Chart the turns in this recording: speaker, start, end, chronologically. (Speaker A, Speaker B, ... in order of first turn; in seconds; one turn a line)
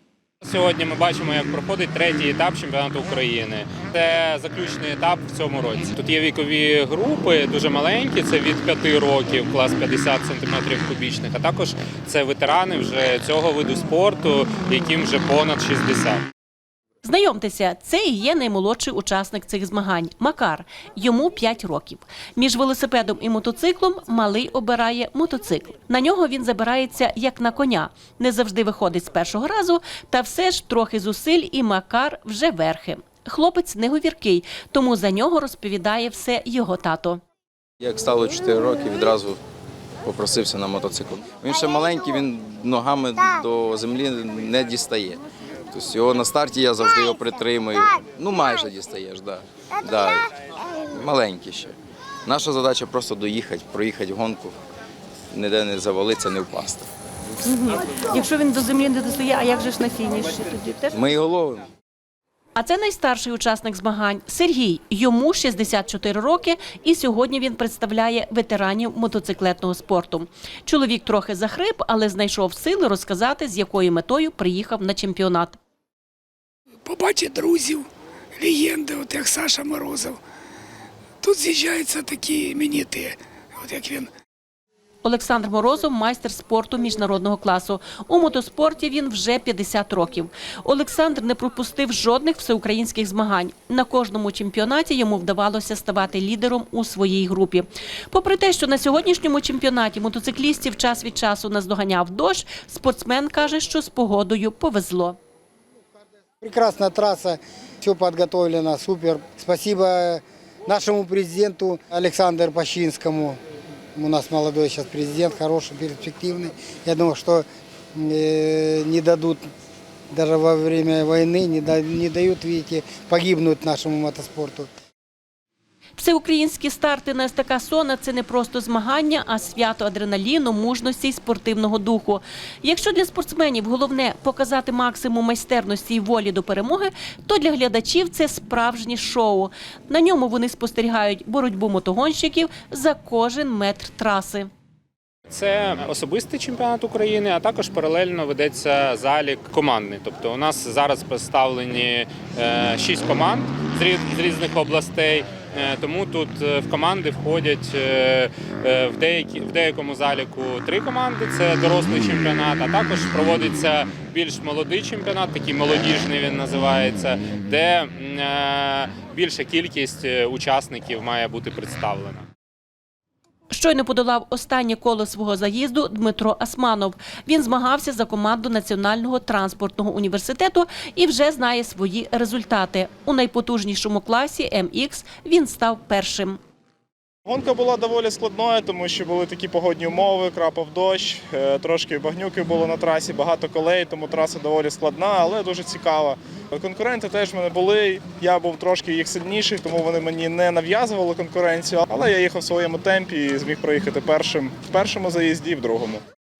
Speaker A: 0.4-16.2
Speaker B: 17.0-37.2
Speaker C: 37.8-39.4
Speaker C: 40.0-54.5
Speaker C: 55.3-56.9
Speaker B: 57.4-61.0
Speaker C: 60.9-61.7
Speaker B: 62.5-75.6
Speaker D: 76.8-77.8
Speaker D: 78.4-80.2
Speaker D: 81.2-84.1
Speaker B: 85.0-105.2
Speaker E: 106.4-113.4
Speaker E: 114.0-117.4
Speaker E: 117.9-119.4
Speaker E: 120.1-124.7
Speaker B: 126.0-144.5
Speaker A: 145.3-172.2
Speaker B: 173.5-186.4
Speaker F: 187.2-206.0